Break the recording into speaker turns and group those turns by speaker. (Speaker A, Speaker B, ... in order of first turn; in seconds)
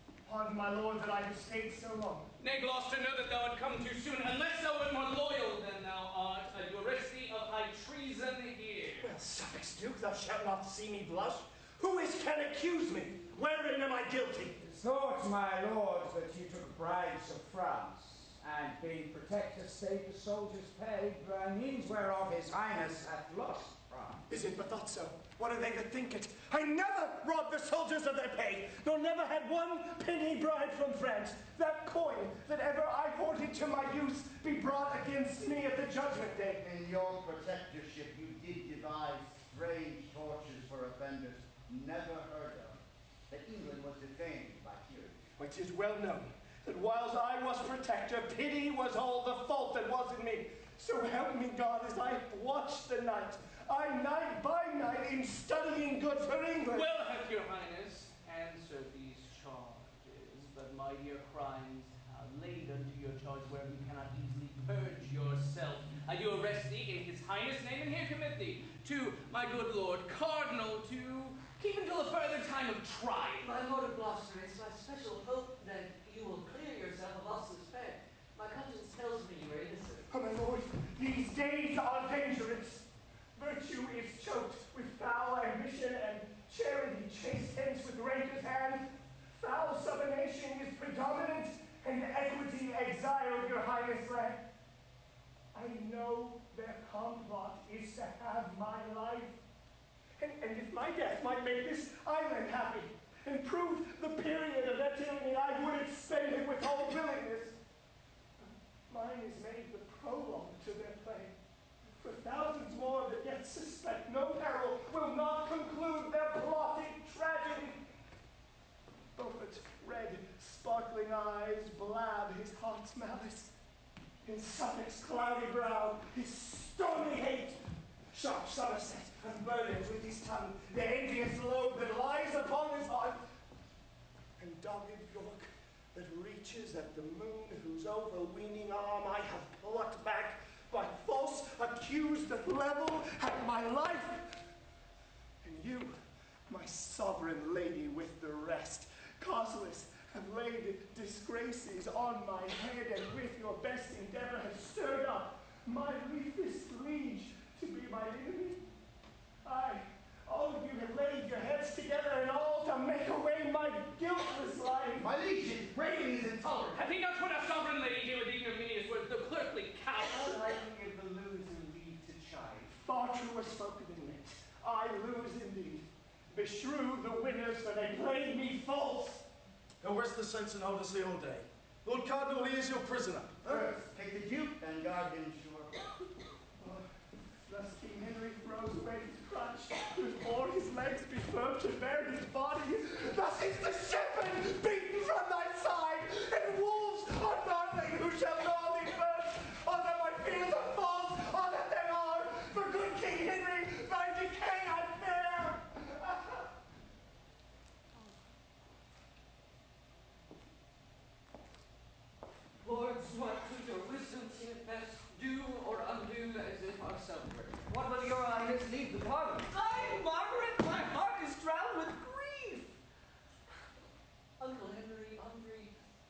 Speaker A: 0.2-2.3, 9.0-14.7, 24.3-36.6, 45.4-56.9, 80.1-94.4, 95.5-99.4, 100.2-107.6, 108.9-111.3, 112.0-117.8, 119.2-123.5, 124.2-127.6, 128.1-133.2, 134.4-144.4, 145.4-158.6, 159.4-165.1, 172.8-179.2, 186.6-186.9, 187.5-206.4
Speaker B: 2.4-9.1, 56.7-73.5, 166.7-170.4
Speaker C: 14.7-24.2
Speaker D: 36.6-45.1, 165.0-166.8, 183.4-185.8
Speaker E: 73.4-80.1, 212.6-217.6, 219.5-222.8, 224.4-225.7
Speaker F: 169.9-172.8, 217.7-219.5
Speaker G: 179.8-183.7